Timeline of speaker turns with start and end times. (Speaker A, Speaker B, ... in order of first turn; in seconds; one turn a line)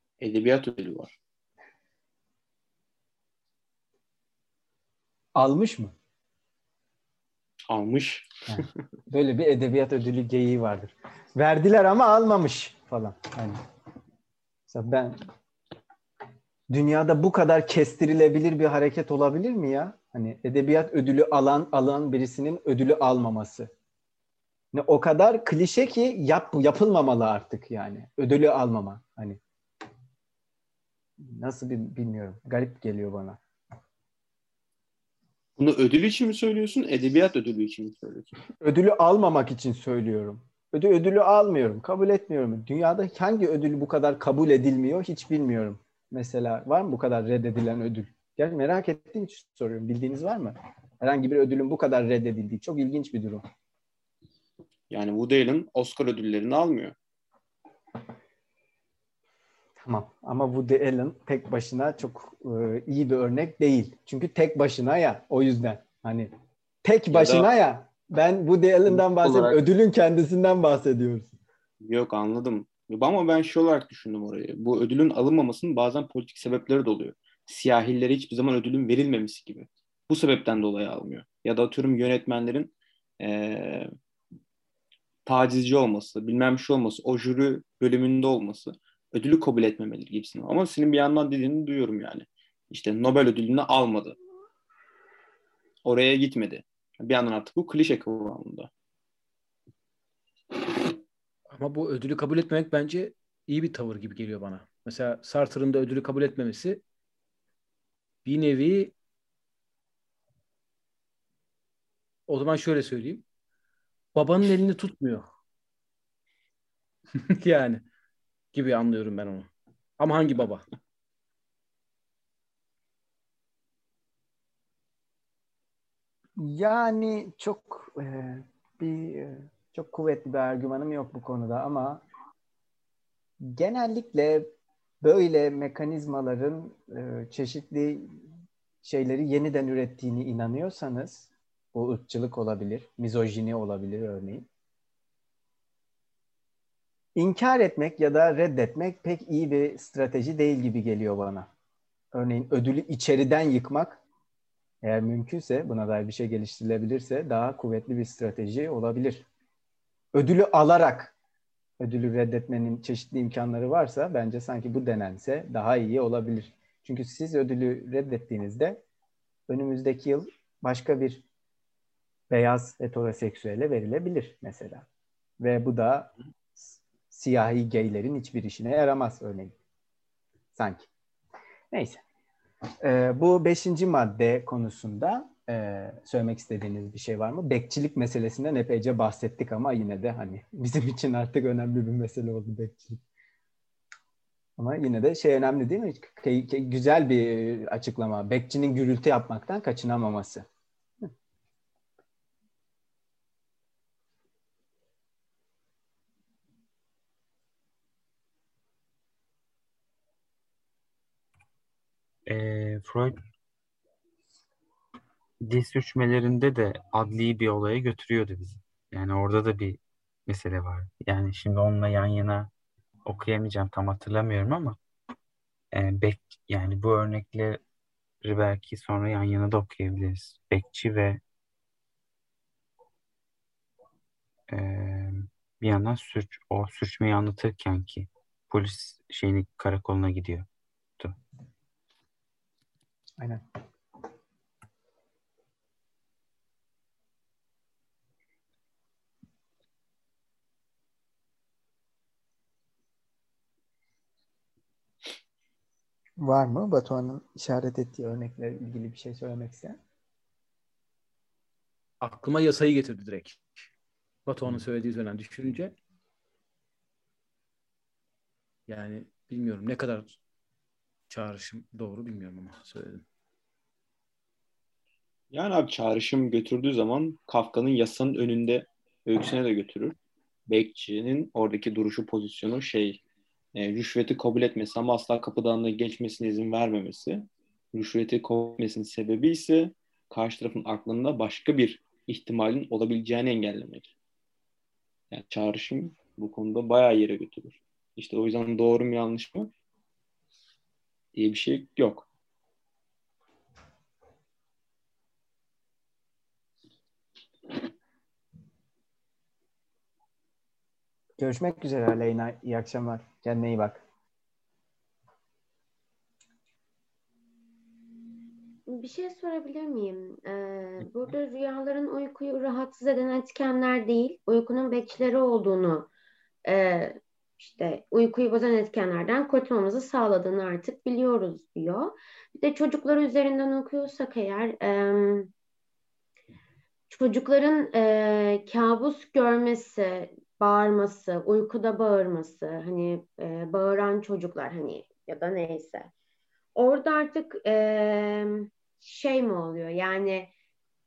Speaker A: 0.2-1.1
Speaker B: 5.3-5.9
Speaker A: 7.7-8.4
Speaker B: 8.5-13.6
Speaker B: 14.7-15.2
Speaker B: 16.7-23.7
Speaker B: 24.7-29.4
Speaker B: 31.2-33.4
Speaker A: 35.6-38.3
Speaker B: 38.6-53.4
Speaker A: 54.9-57.0
Speaker B: 59.8-66.3
Speaker B: 66.8-71.3
Speaker A: 67.1-67.5
Speaker A: 68.9-69.6
Speaker A: 71.8-83.9
Speaker A: 85.3-94.2
Speaker A: 95.8-98.7
Speaker C: 101.5-106.8
Speaker C: 108.2-108.9
Speaker C: 112.3-113.2
Speaker C: 114.1-115.3
Speaker C: 117.3-117.8
Speaker C: 118.5-120.6
Speaker B: 126.4-132.0
Speaker B: 133.4-134.5
Speaker B: 135.0-138.1
Speaker B: 138.8-144.5
Speaker B: 147.1-151.5
Speaker B: 152.1-154.0
Speaker B: 154.8-159.3
Speaker B: 160.1-161.1
Speaker B: 161.8-168.8
Speaker B: 169.5-171.3
Speaker B: 172.3-174.8
Speaker B: 175.4-176.1
Speaker B: 177.1-179.6
Speaker B: 180.6-180.9
Speaker B: 181.7-182.0
Speaker B: 182.8-193.0
Speaker B: 194.6-200.4
Speaker D: 212.3-213.2
Speaker D: 215.4-222.5
Speaker D: 223.1-224.8
Speaker D: 225.7-227.6
Speaker D: 228.2-231.2
Speaker D: 234.5-240.5
Speaker B: 256.2-259.8
Speaker C: 262.0-263.4
Speaker C: 264.3-265.7
Speaker C: 268.7-270.2
Speaker C: 271.1-273.0
Speaker A: 275.3-283.0
Speaker A: 283.6-293.9
Speaker A: 295.1-299.5
Speaker A: 301.1-302.1
Speaker B: 311.2-313.8
Speaker E: 318.7-325.9
Speaker E: 326.4-335.3
Speaker E: 336.9-345.9
Speaker E: 346.6-350.3